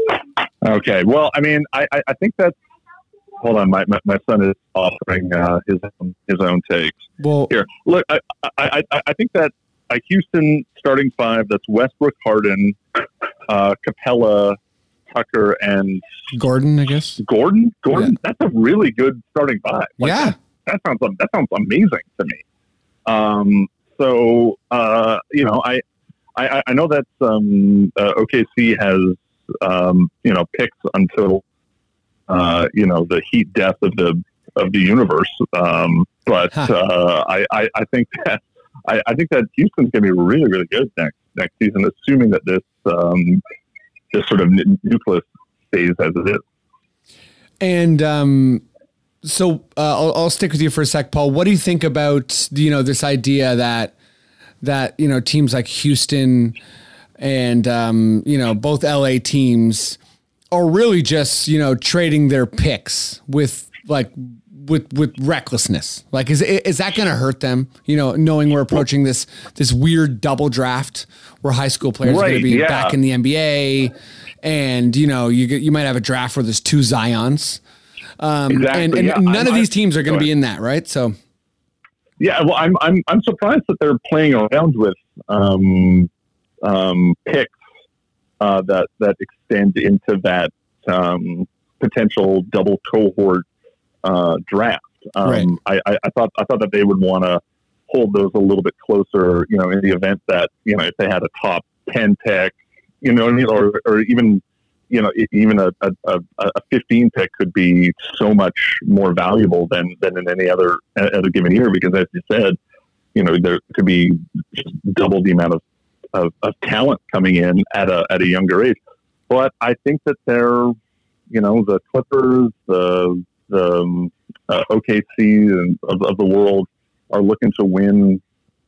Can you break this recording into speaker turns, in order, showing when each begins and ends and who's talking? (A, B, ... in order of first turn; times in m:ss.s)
0:00.6-0:02.5 A
0:03.4-0:07.0 A
0:07.2-0:07.5 B
0:07.5-0:12.8 A
0:13.5-0:14.6 A
0:15.1-0:16.0 A
0:16.3-0:17.2 B
0:17.2-0:22.4 A
0:20.0-0:20.3 B
0:23.0-0:25.8 A
0:26.4-0:31.4 A
0:32.3-0:43.4 A
0:44.1-0:46.4 A
0:47.6-0:48.6 B
0:49.2-0:53.9 B
0:54.6-0:56.6 B
0:57.2-1:00.0 B
1:00.5-1:17.6 B
1:12.0-1:13.0 A
1:18.2-1:21.2 B
1:18.5-1:20.3 A
1:22.2-1:26.1 A
1:26.6-1:27.5 A
1:28.4-1:33.4 A
1:34.0-1:52.6 A
1:35.2-1:35.5 B
1:53.1-1:55.6 A
1:56.1-1:58.8 A
1:59.3-2:00.8 A
2:01.3-2:08.2 A